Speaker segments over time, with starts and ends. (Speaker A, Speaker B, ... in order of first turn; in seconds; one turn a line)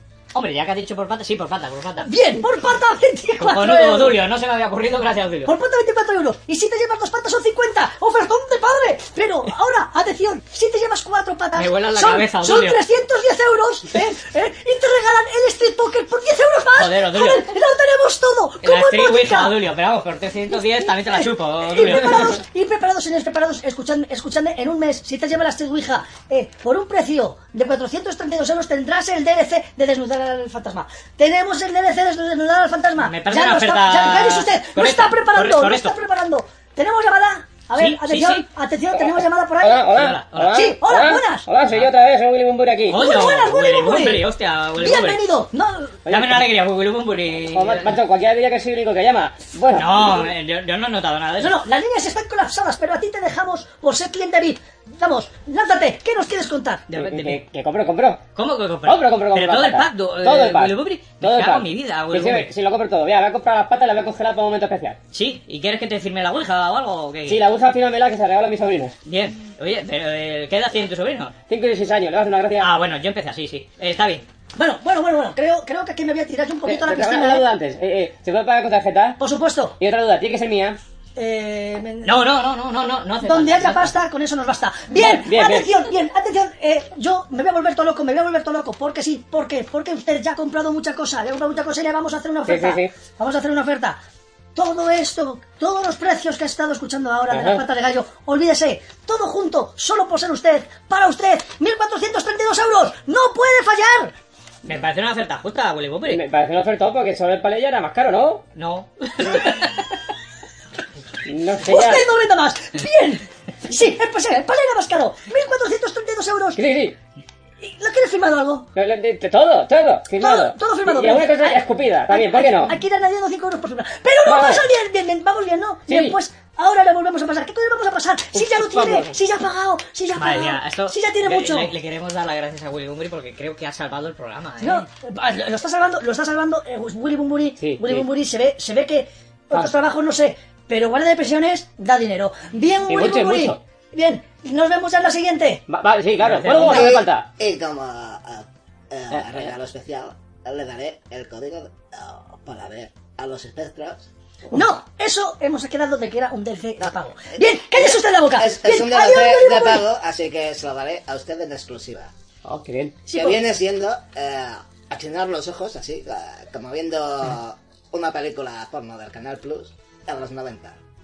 Speaker A: 0.3-2.1
Speaker B: 2.1-4.2
Speaker A: 3.4-5.5
Speaker B: 5.5-19.6
Speaker A: 11.6-12.8
Speaker A: 16.8-17.5
Speaker A: 18.6-22.4
Speaker B: 20.5-39.9
Speaker A: 33.0-36.0
Speaker A: 37.8-38.5
Speaker C: 39.0-43.0
Speaker A: 39.9-40.6
Speaker B: 40.5-41.5
Speaker A: 42.9-45.2
Speaker B: 42.9-44.3
Speaker B: 44.8-46.0
Speaker C: 46.1-46.5
Speaker A: 46.1-48.0
Speaker C: 47.5-50.3
Speaker A: 49.7-51.6
Speaker B: 51.4-56.9
Speaker A: 56.9-57.4
Speaker C: 56.9-58.2
Speaker A: 58.4-62.5
Speaker C: 58.9-65.0
Speaker A: 65.1-67.4
Speaker C: 67.3-69.0
Speaker A: 69.0-71.3
Speaker C: 71.5-72.7
Speaker A: 72.6-74.3
Speaker B: 74.6-77.5
Speaker C: 76.6-79.2
Speaker B: 79.2-79.8
Speaker C: 79.8-80.8
Speaker B: 81.2-82.2
Speaker A: 82.0-84.0
Speaker B: 83.2-94.0
Speaker C: 85.0-85.7
Speaker C: 92.5-92.9
Speaker B: 94.5-104.1
Speaker C: 97.3-97.6
Speaker A: 104.7-106.2
Speaker C: 106.1-108.5
Speaker A: 108.5-110.0
Speaker C: 111.3-112.1
Speaker B: 111.7-116.6
Speaker C: 116.6-117.0
Speaker B: 117.6-118.7
Speaker C: 118.8-122.8
Speaker B: 120.2-131.7
Speaker C: 124.2-124.7
Speaker C: 125.9-126.2
Speaker C: 128.3-129.1
Speaker A: 130.2-134.9
Speaker B: 134.6-145.6
Speaker C: 137.6-138.1
Speaker C: 142.9-143.6
Speaker C: 145.7-147.3
Speaker A: 146.2-146.9
Speaker B: 146.4-147.1
Speaker D: 147.4-154.1
Speaker C: 149.1-149.5
Speaker B: 154.5-159.8
Speaker D: 157.7-162.1
Speaker C: 162.4-163.0
Speaker B: 163.1-163.4
Speaker D: 163.1-170.8